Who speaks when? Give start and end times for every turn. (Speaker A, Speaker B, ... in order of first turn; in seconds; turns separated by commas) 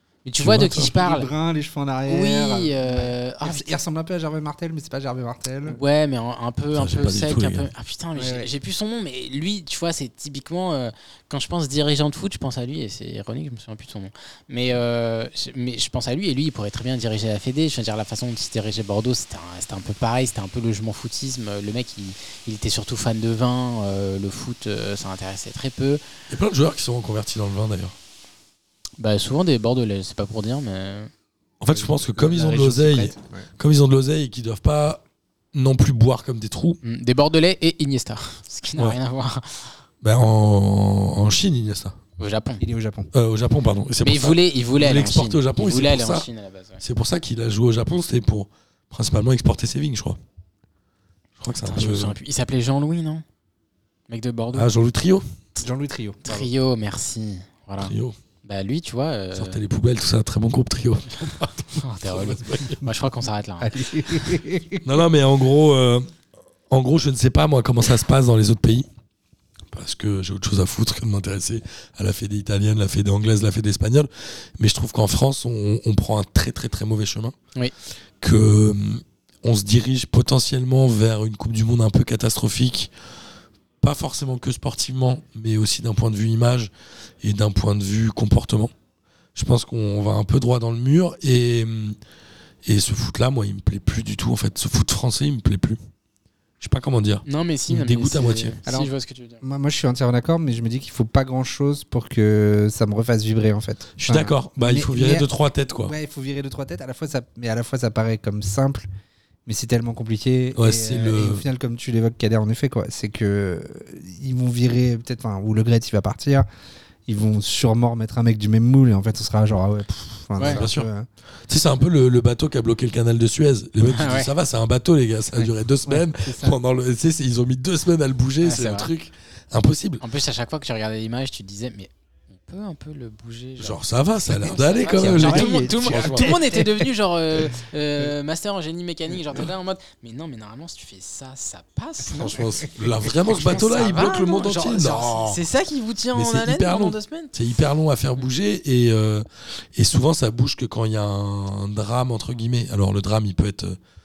Speaker A: 0.2-1.3, Speaker B: 0.4-0.9, Speaker C: 0.6-5.8, Speaker A: 2.1-3.7, Speaker A: 5.7-26.0, Speaker B: 6.7-7.7, Speaker C: 8.2-8.5, Speaker B: 26.3-27.9, Speaker A: 29.0-31.1, Speaker B: 31.6-35.0, Speaker C: 31.7-33.5, Speaker B: 35.5-36.8, Speaker A: 36.8-39.8, Speaker B: 40.0-42.0, Speaker A: 42.2-42.6, Speaker C: 42.6-43.1, Speaker B: 43.1-46.3, Speaker A: 44.0-46.8, Speaker B: 46.8-50.2, Speaker B: 51.4-52.1, Speaker A: 51.6-53.2, Speaker A: 54.1-54.7, Speaker B: 54.5-55.2, Speaker C: 55.6-56.5, Speaker A: 56.2-59.6, Speaker B: 57.8-58.1, Speaker B: 59.3-62.8, Speaker A: 61.7-63.8, Speaker C: 63.6-64.8, Speaker B: 64.8-66.1, Speaker B: 66.7-68.9, Speaker B: 69.7-77.3, Speaker B: 78.2-82.9, Speaker B: 83.8-86.7, Speaker B: 87.2-88.7, Speaker B: 89.3-92.0, Speaker B: 92.6-95.8, Speaker B: 96.6-98.5, Speaker A: 97.2-99.4, Speaker C: 98.7-105.3, Speaker B: 104.0-105.9, Speaker C: 105.8-108.9, Speaker C: 109.5-116.5, Speaker B: 110.5-111.4, Speaker C: 117.1-121.1, Speaker A: 120.4-120.6, Speaker B: 120.4-120.9, Speaker B: 121.5-130.0, Speaker A: 123.8-124.3, Speaker C: 125.8-126.6, Speaker A: 128.4-128.9, Speaker A: 130.0-147.3, Speaker B: 133.6-136.4, Speaker C: 134.5-136.9, Speaker B: 142.1-145.4, Speaker B: 146.1-153.8